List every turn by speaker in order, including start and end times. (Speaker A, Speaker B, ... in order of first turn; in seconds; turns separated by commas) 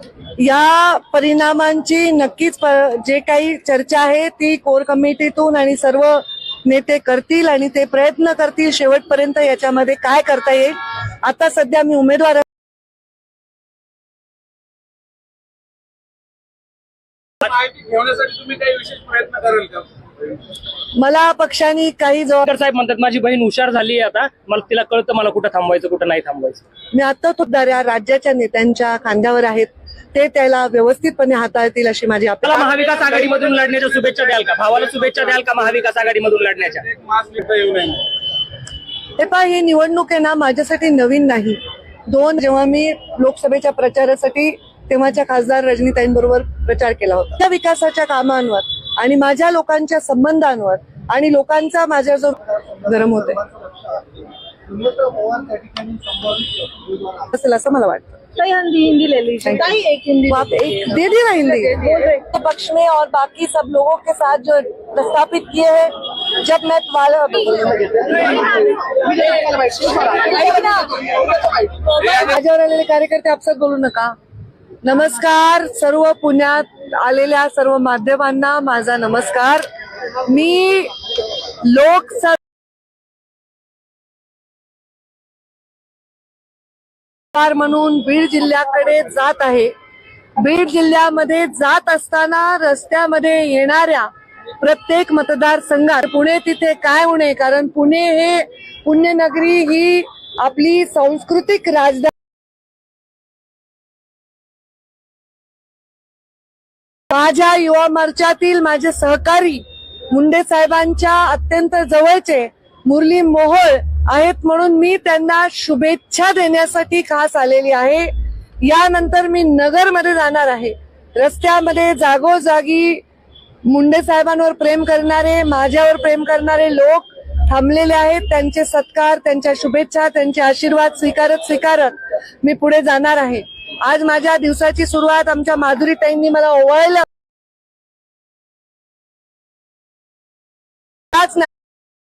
Speaker A: 0.4-12.5, Speaker B: 17.6-19.8, Speaker A: 21.0-22.5, Speaker C: 22.5-26.6, Speaker A: 26.9-32.9, Speaker C: 32.4-37.4, Speaker A: 39.2-53.4, Speaker D: 54.7-57.0, Speaker A: 57.2-58.2, Speaker D: 58.4-60.5, Speaker A: 59.4-68.7, Speaker D: 68.2-71.1, Speaker A: 70.2-70.9, Speaker A: 71.8-74.2, Speaker A: 74.8-79.7, Speaker A: 80.2-81.0, Speaker A: 81.6-82.4, Speaker A: 87.3-89.7, Speaker A: 90.4-94.1, Speaker A: 94.6-102.1, Speaker A: 107.1-118.1, Speaker A: 118.6-123.0, Speaker A: 123.7-137.1, Speaker A: 141.1-141.5